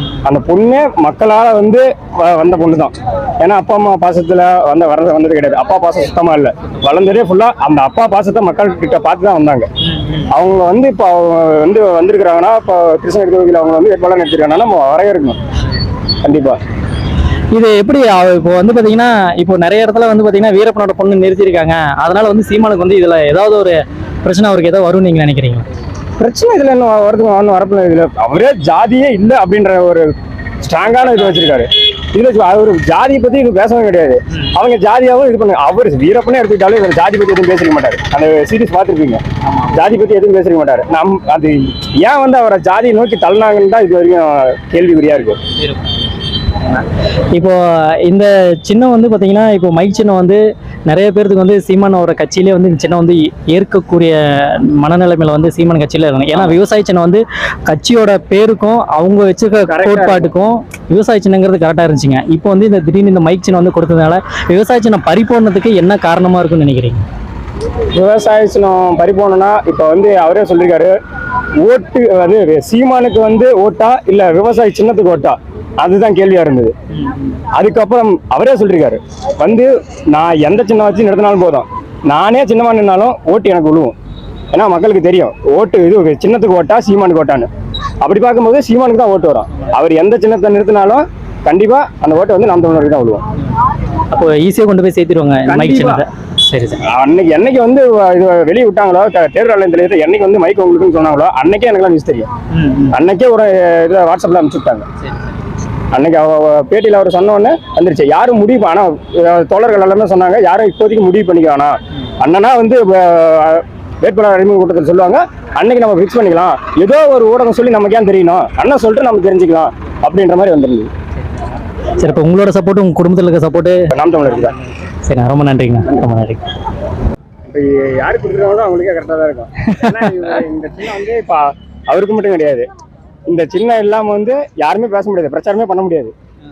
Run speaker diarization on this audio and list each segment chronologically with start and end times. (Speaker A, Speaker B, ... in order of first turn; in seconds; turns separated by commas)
Speaker A: 0.2-9.7, Speaker B: 9.8-10.2, Speaker A: 10.3-15.4, Speaker A: 16.2-16.6, Speaker B: 17.5-25.7, Speaker A: 26.2-30.1, Speaker A: 30.6-39.2, Speaker B: 39.4-39.8, Speaker A: 39.7-45.4, Speaker B: 45.6-45.9, Speaker B: 46.6-67.0, Speaker A: 59.7-60.3, Speaker A: 67.9-71.0, Speaker A: 71.6-76.7, Speaker B: 76.9-77.4, Speaker A: 77.5-83.9, Speaker A: 84.5-87.5, Speaker A: 88.0-93.2, Speaker B: 94.1-96.8, Speaker A: 95.5-96.0, Speaker A: 96.9-102.3, Speaker B: 102.5-103.0, Speaker A: 102.9-104.9, Speaker A: 105.9-120.9, Speaker B: 121.2-123.8, Speaker A: 123.9-124.5, Speaker B: 124.9-126.5, Speaker A: 127.5-132.7, Speaker B: 129.8-130.3, Speaker A: 133.3-136.1